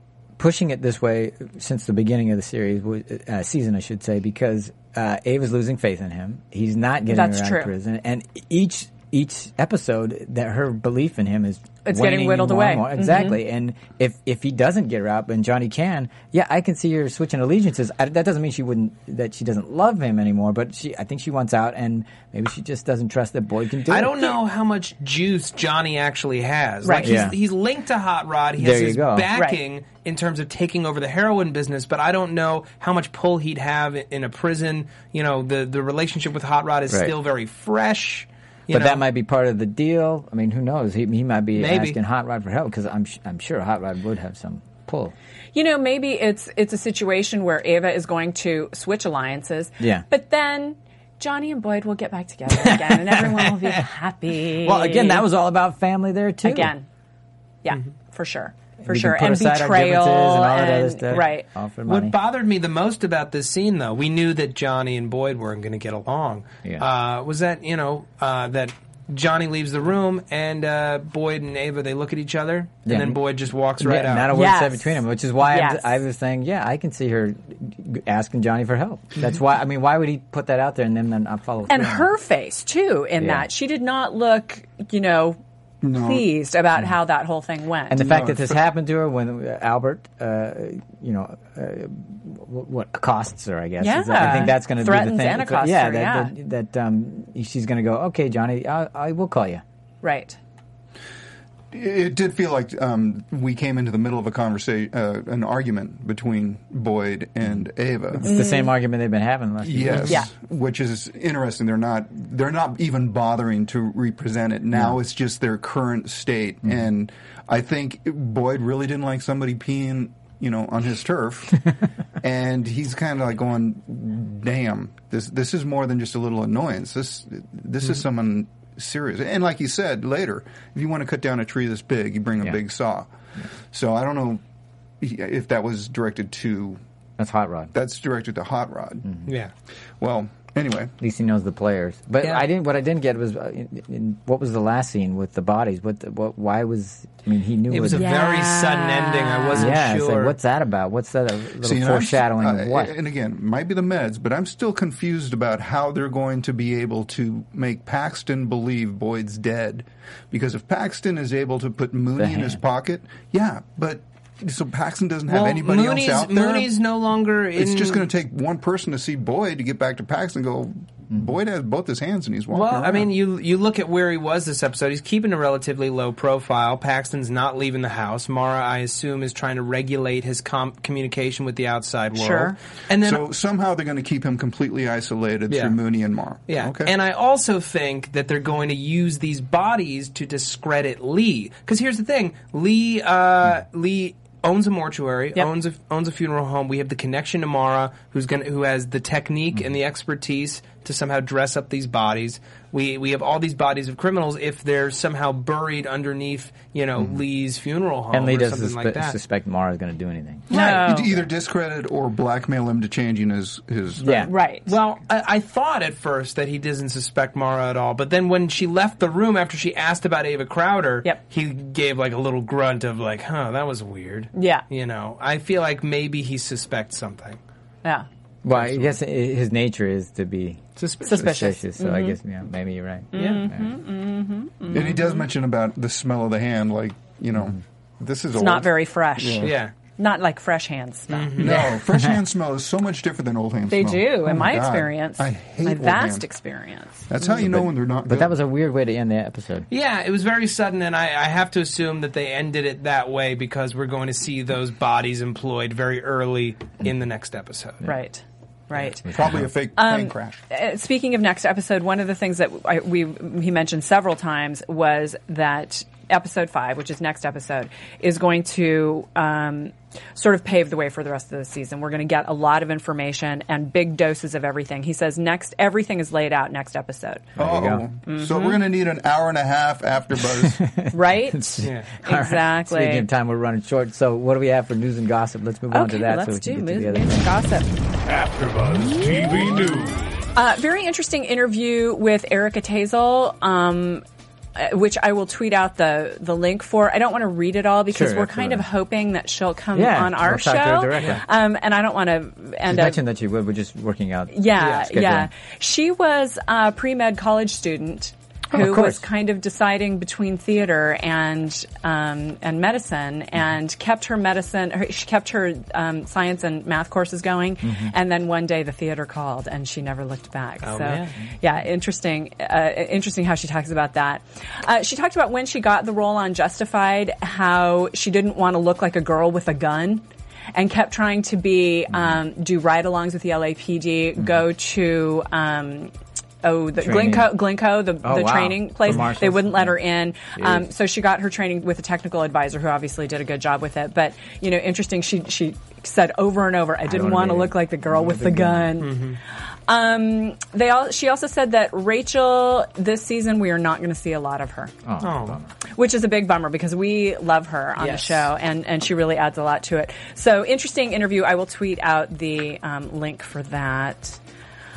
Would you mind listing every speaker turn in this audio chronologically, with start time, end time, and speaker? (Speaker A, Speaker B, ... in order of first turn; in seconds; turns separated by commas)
Speaker A: 0.4-24.4, Speaker B: 7.1-7.7, Speaker B: 11.8-13.4, Speaker C: 23.9-39.0, Speaker B: 26.8-27.2, Speaker A: 27.0-27.3, Speaker A: 28.6-29.3, Speaker A: 36.9-37.1, Speaker A: 38.7-45.1, Speaker C: 41.5-42.0, Speaker B: 45.5-55.2, Speaker A: 49.8-50.0, Speaker A: 52.6-53.8, Speaker A: 54.6-56.7, Speaker B: 56.4-56.9, Speaker B: 57.6-61.5, Speaker A: 58.9-62.1, Speaker C: 61.9-74.3, Speaker A: 72.8-73.2, Speaker A: 73.8-82.1, Speaker B: 74.3-76.0, Speaker B: 81.7-85.4, Speaker A: 83.2-83.5, Speaker D: 85.8-86.3, Speaker B: 86.0-88.0, Speaker A: 87.9-99.6, Speaker D: 88.0-88.5, Speaker B: 93.8-96.3, Speaker B: 100.0-100.4, Speaker D: 101.7-108.3, Speaker A: 107.4-110.2, Speaker B: 108.2-108.7, Speaker D: 109.6-133.1, Speaker A: 114.7-115.0, Speaker D: 133.7-134.4, Speaker D: 135.0-136.8, Speaker A: 137.2-137.7, Speaker D: 137.7-139.1, Speaker A: 139.0-139.3, Speaker C: 139.3-139.5, Speaker D: 140.0-140.9, Speaker A: 141.0-148.1, Speaker C: 147.7-150.3, Speaker B: 147.9-149.7, Speaker A: 149.5-152.9, Speaker D: 151.6-166.7, Speaker A: 162.2-162.6, Speaker C: 165.3-168.1, Speaker D: 167.6-173.1, Speaker C: 172.5-183.2, Speaker B: 182.1-182.6, Speaker D: 183.0-186.9, Speaker C: 185.5-185.8, Speaker C: 186.5-209.2, Speaker A: 208.1-210.5, Speaker B: 210.5-211.1, Speaker D: 210.5-214.3, Speaker A: 214.0-214.3, Speaker B: 214.2-214.7, Speaker C: 214.7-227.4, Speaker B: 224.3-224.6, Speaker A: 228.4-233.8, Speaker C: 228.5-228.9, Speaker C: 230.8-231.3, Speaker B: 231.0-232.2, Speaker B: 233.1-235.2, Speaker C: 233.1-233.5, Speaker D: 234.7-239.6, Speaker B: 238.3-241.4, Speaker C: 239.4-239.7, Speaker C: 241.1-241.7, Speaker D: 241.4-246.2, Speaker A: 241.9-242.2, Speaker B: 243.7-247.0, Speaker D: 247.1-248.4, Speaker A: 247.2-249.7, Speaker C: 249.7-257.9, Speaker B: 257.8-259.1, Speaker A: 259.0-259.5, Speaker D: 259.1-260.4, Speaker B: 259.8-277.3, Speaker A: 277.4-277.9, Speaker D: 277.4-280.6, Speaker B: 278.1-278.6, Speaker A: 280.4-287.3, Speaker B: 280.9-283.0, Speaker C: 281.6-281.9, Speaker B: 285.7-287.7, Speaker E: 288.1-290.1, Speaker B: 290.3-294.0, Speaker B: 294.5-303.0, Speaker A: 297.9-298.7, Speaker A: 299.7-301.2, Speaker A: 302.6-305.3, Speaker B: 304.3-335.9, Speaker A: 308.5-309.1, Speaker A: 317.6-317.9, Speaker C: 320.6-321.1, Speaker B: 336.4-349.0, Speaker A: 336.8-337.4, Speaker A: 338.0-340.7, Speaker A: 346.8-348.7, Speaker C: 348.8-349.2, Speaker B: 349.7-354.7, Speaker A: 354.8-355.5, Speaker C: 355.0-355.4, Speaker B: 355.7-364.2, Speaker C: 357.8-358.3